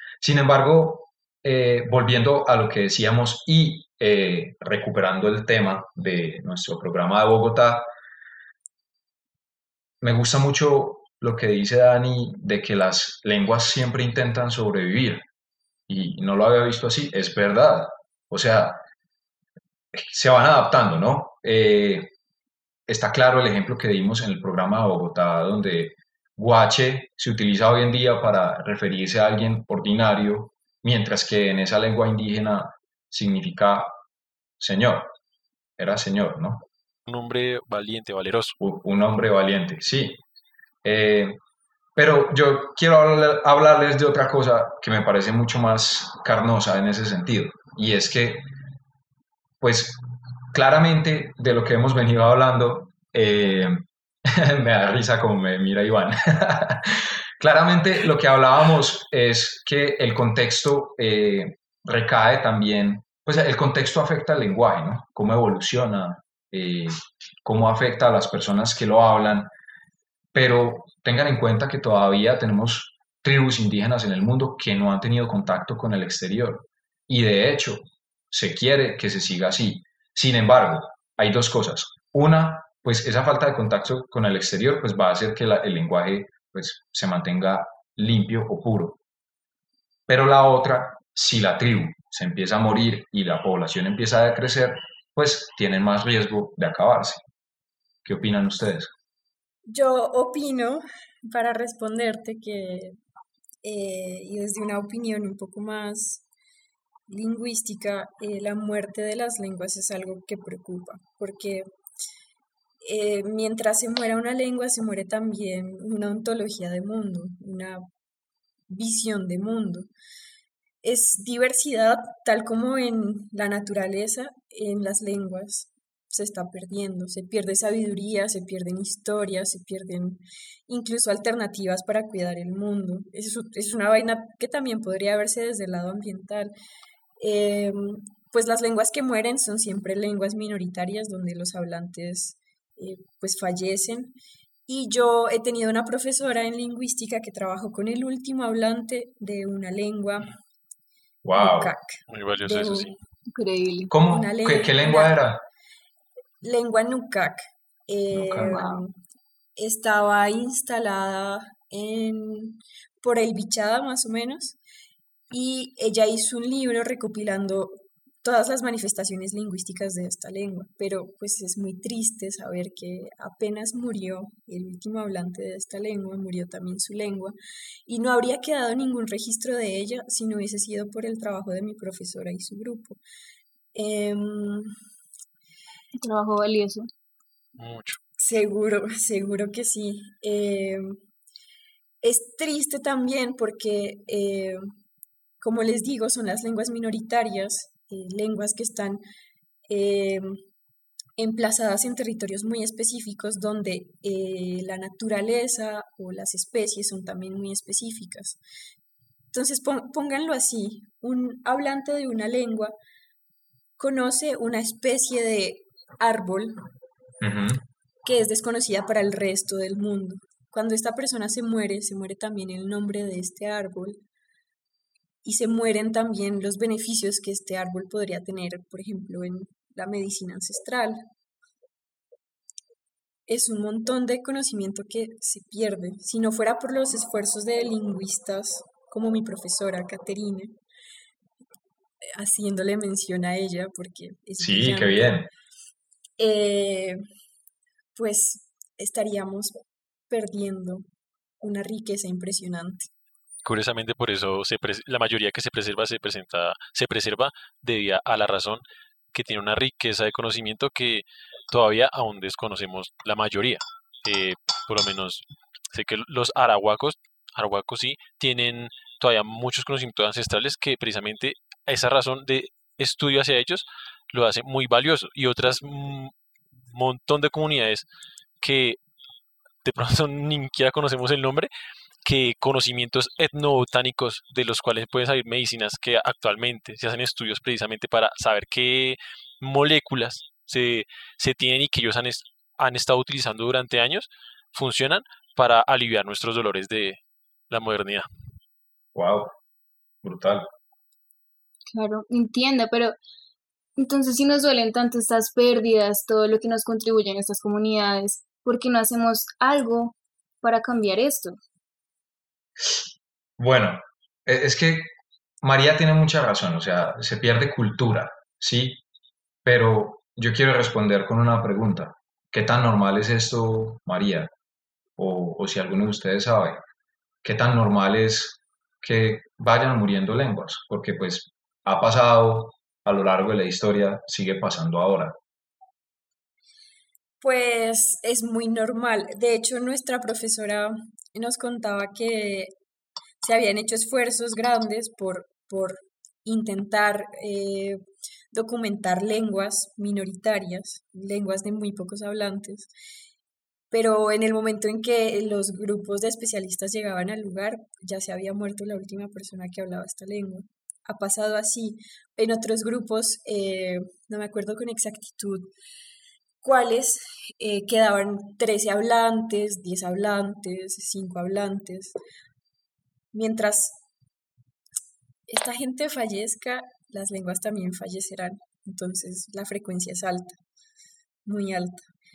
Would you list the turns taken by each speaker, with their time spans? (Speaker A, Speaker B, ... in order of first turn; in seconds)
Speaker A: 0.2-7.9, 10.0-15.3, 15.9-18.8, 19.9-22.1, 22.9-34.0, 34.6-35.1, 35.8-36.7, 38.6-40.2, 40.8-41.4, 42.0-48.5, 49.6-50.0, 50.5-69.5, 70.3-89.0, 90.1-97.2, 98.0-98.9, 151.2-151.7, 153.9-155.4, 158.1-158.6, 217.2-217.6, 244.4-245.3, 298.9-299.4, 300.0-300.5, 313.4-318.8, 319.4-324.3, 325.0-326.6, 327.2-335.2
Speaker B: 37.1-38.6, 152.1-152.9, 187.6-188.0, 253.4-258.6, 259.1-276.1, 276.7-277.9, 278.4-278.8, 279.6-281.5, 282.0-297.0, 297.5-298.1
Speaker C: 99.7-103.0, 103.6-106.2, 107.1-111.7, 112.8-117.9, 118.7-119.9, 120.8-136.5, 137.2-144.1, 144.7-150.3, 151.4-152.9, 154.0-155.2, 156.4-158.9, 159.6-164.6, 165.3-183.0, 183.7-184.7, 188.2-191.0, 192.0-194.7, 195.4-199.0, 199.7-200.4, 201.2-208.4, 209.3-212.8, 213.8-216.6, 218.0-224.0, 225.2-231.0, 233.3-240.5, 242.2-245.2, 246.2-247.0, 247.9-249.5, 250.1-250.9, 251.4-252.9, 337.2-342.5, 343.2-352.7, 353.7-365.5, 366.4-372.0, 373.1-373.8, 375.3-380.4, 381.2-381.9
Speaker D: 153.3-153.9, 186.0-186.9, 301.7-303.0, 303.8-311.4